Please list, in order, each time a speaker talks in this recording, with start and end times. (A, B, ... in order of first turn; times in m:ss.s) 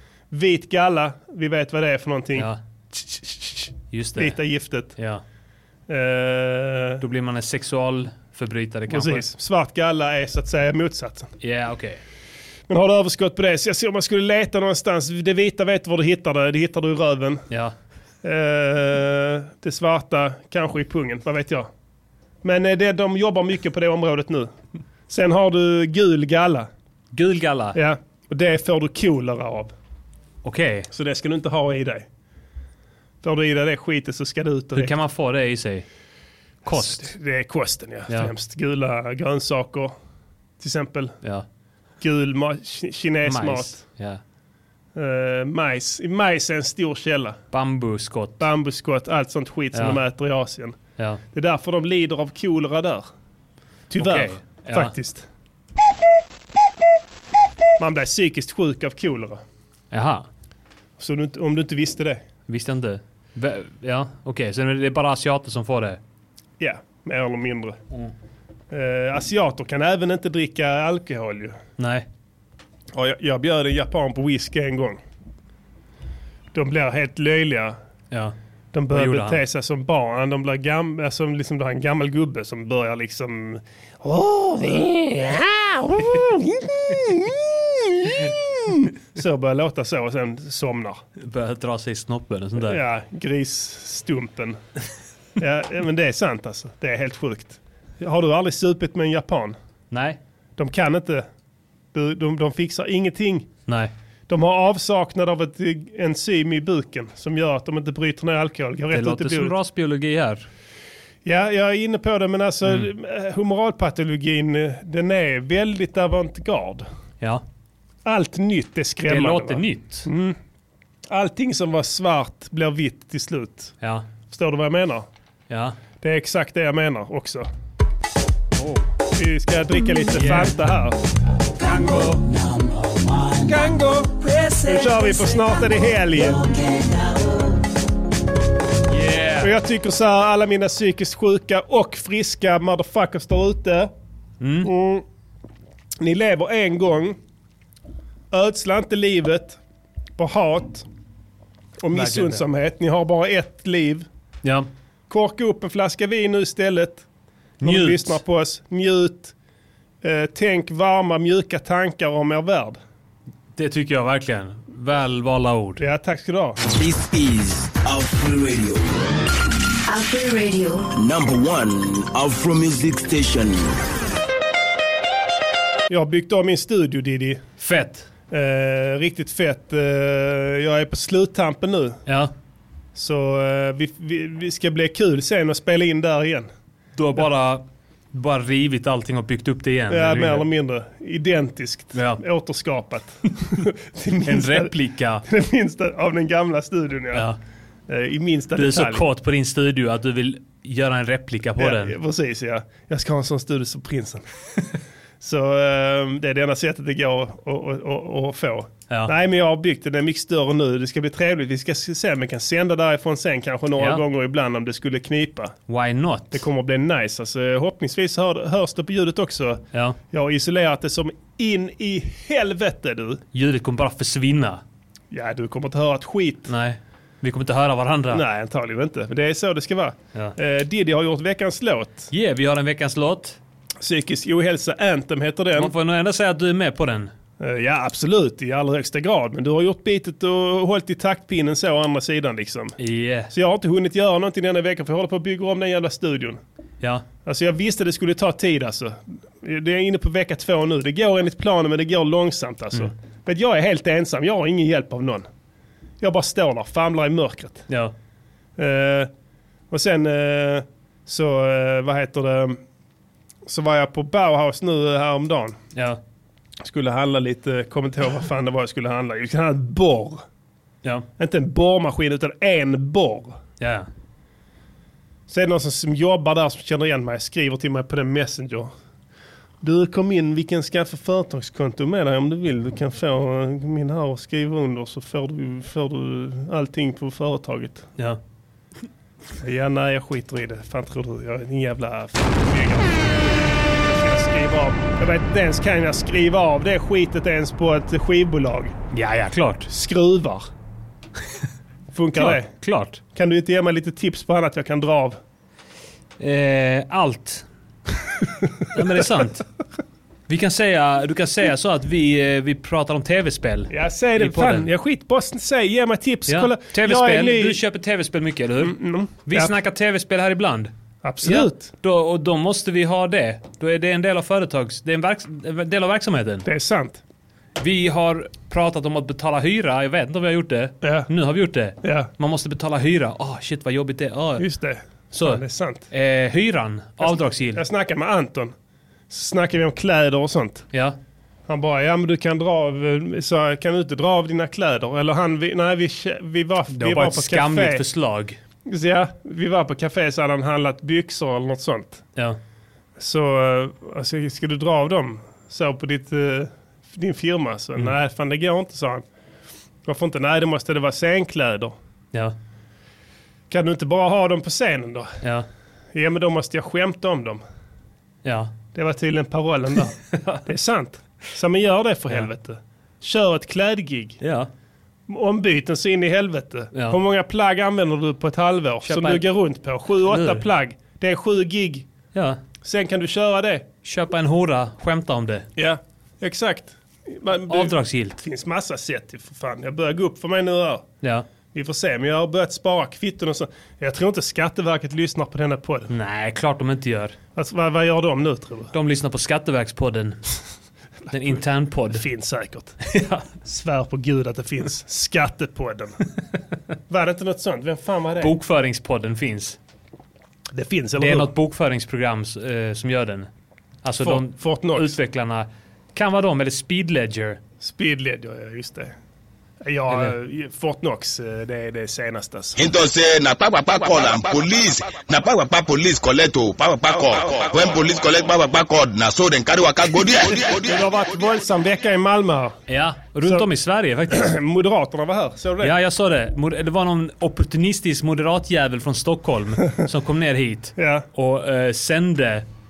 0:00.3-0:02.5 A
0:03.9-0:04.4 B
0:04.2-0:05.0 A
0:05.0-0:05.2 B
0:05.9-0:07.0 A
0:07.0-0:09.2 B
0:08.9-0:11.3 A
0:11.4-0:12.0 B
0:12.7-0:17.4 A
0:18.2-0:21.7 A
0:22.4-0:24.5 A
0:25.1-0:26.7 A
0:27.1-0:27.8 B
0:27.8-0:29.7 A
0:30.4-0:30.9 B
0:30.9-0:32.1 A
0:33.2-0:34.9 A
0:34.8-0:35.9 B
0:36.7-0:37.1 B
0:36.7-0:40.0 A
0:40.6-0:41.2 A
0:42.0-0:43.8 A
0:43.3-0:44.2 B
0:45.0-0:47.4 A
0:47.5-0:48.5 B
0:48.4-0:50.8 A
0:49.7-0:50.0 B
0:51.3-0:53.1 A
0:53.9-0:55.3 A
0:54.0-0:54.9 B
0:57.8-0:59.4 A
0:59.9-1:00.3 B
1:01.0-1:02.2 A
1:02.5-1:06.0 B
1:06.6-1:07.8 A
1:08.7-1:11.6 A
1:11.8-1:12.1 B
1:13.0-1:15.0 A
1:16.5-1:17.8 A
1:18.7-1:31.0 A
1:18.9-1:19.4 B
1:31.2-1:32.8 B
1:32.6-1:34.6 A
1:35.4-1:39.6 A
1:39.9-1:40.2 B
1:40.6-1:41.3 A
1:41.9-1:43.5 A
1:44.3-1:49.5 A
1:48.9-1:50.5 B
1:51.2-1:56.9 A
1:58.0-2:00.4 A
1:59.1-2:00.1 B
2:01.1-2:03.8 A
2:03.8-2:04.1 B
2:04.3-2:05.1 A
2:05.5-2:05.8 B
2:06.0-2:07.5 A
2:09.2-2:11.0 A
2:10.2-2:10.6 B
2:11.6-2:17.6 C
2:11.6-2:12.2 B
2:13.4-2:14.1 A
2:14.6-2:16.4 A
2:18.9-2:19.5 B
2:19.4-2:23.9 A
2:24.4-2:24.7 B
2:24.6-2:25.0 A
2:26.0-2:27.2 A
2:28.3-2:29.6 A
2:30.2-2:30.8 A
2:31.8-2:34.1 A
2:31.9-2:32.4 B
2:34.4-2:34.7 B
2:35.1-2:37.1 A
2:37.6-2:38.2 B
2:37.6-2:39.3 A
2:40.0-2:42.8 A
2:43.6-2:45.8 B
2:45.8-2:46.6 A
2:46.8-2:48.9 D
2:49.9-2:50.9 C
2:51.0-2:53.6 D
2:55.9-2:57.4 A
2:57.6-2:58.1 B
2:58.3-3:02.0 A
3:02.1-3:02.3 B
3:03.0-3:06.5 A
3:07.0-3:10.4 B
3:09.9-3:14.7 A
3:11.9-3:12.2 B
3:14.2-3:15.2 B
3:15.3-3:17.2 A
3:17.1-3:17.4 B
3:17.9-3:19.0 A
3:18.6-3:22.0 B
3:21.6-3:24.2 A
3:25.2-3:35.6 A
3:35.7-3:36.4 B
3:36.3-3:43.2 A
3:43.3-3:44.6 B
3:45.1-3:46.5 A
3:46.5-3:48.2 B
3:48.1-3:52.1 A
3:52.1-3:53.4 B
3:53.8-3:55.7 A
3:55.6-3:57.1 B
3:57.4-4:02.8 A
4:02.8-4:03.3 B
4:03.3-4:06.4 A
4:07.2-4:15.3 A
4:16.0-4:17.7 A
4:17.7-4:17.9 B
4:18.6-4:19.1 A
4:19.7-4:22.6 A
4:23.5-4:25.6 A
4:25.8-4:26.0 B
4:26.6-4:30.2 A
4:31.2-4:33.4 A
4:33.6-4:33.9 B
4:35.3-4:38.7 A
4:39.6-4:47.9 A
4:49.4-4:58.8 A
4:58.9-4:59.7 B
4:59.7-5:00.5 A
5:01.9-5:02.5 A
5:02.2-5:03.0 B
5:03.1-5:05.2 A
5:06.2-5:07.5 B
5:08.7-5:09.5 B
5:10.3-5:14.7 B
5:13.7-5:17.6 A
5:16.3-5:20.7 B
5:18.6-5:19.5 A
5:21.0-5:21.7 A
5:21.2-5:26.4 B
5:26.4-5:27.0 A
5:27.6-5:34.4 B
5:30.8-5:31.1 A
5:31.8-5:32.1 A
5:34.4-5:35.9 A
5:35.1-5:37.6 B
5:37.0-5:38.5 A
5:39.1-5:40.7 A
5:41.5-5:47.8 A
5:46.7-5:48.4 B
5:48.7-5:52.0 A
5:53.0-5:59.0 A
5:59.8-6:01.8 A
6:03.5-6:05.1 A
6:05.9-6:07.4 A
6:08.2-6:08.5 B
6:08.7-6:14.2 A
6:10.1-6:10.4 B
6:14.2-6:14.5 B
6:15.1-6:21.9 A
6:18.9-6:19.3 B
6:19.9-6:20.4 B
6:22.1-6:22.4 B
6:22.6-6:23.6 A
6:23.8-6:25.5 B
6:25.6-6:30.8 A
6:27.5-6:28.2 B
6:31.5-6:35.9 A
6:35.9-6:37.2 B
6:37.4-6:38.7 A
6:38.7-6:40.2 B
6:41.1-6:42.0 B
6:41.9-6:42.8 A
6:42.8-6:43.3 B
6:43.4-6:46.0 A
6:46.9-6:48.3 A
6:48.2-6:49.6 B
6:50.5-6:51.3 A
6:51.0-6:53.3 B
6:53.8-6:57.4 B
6:54.0-6:55.0 A
6:57.6-6:59.0 A
6:59.6-7:02.6 A
7:02.6-7:10.8 E
7:10.3-7:12.6 A
7:12.7-7:14.3 B
7:14.1-7:15.7 A
7:15.6-7:22.5 B
7:20.8-7:21.0 A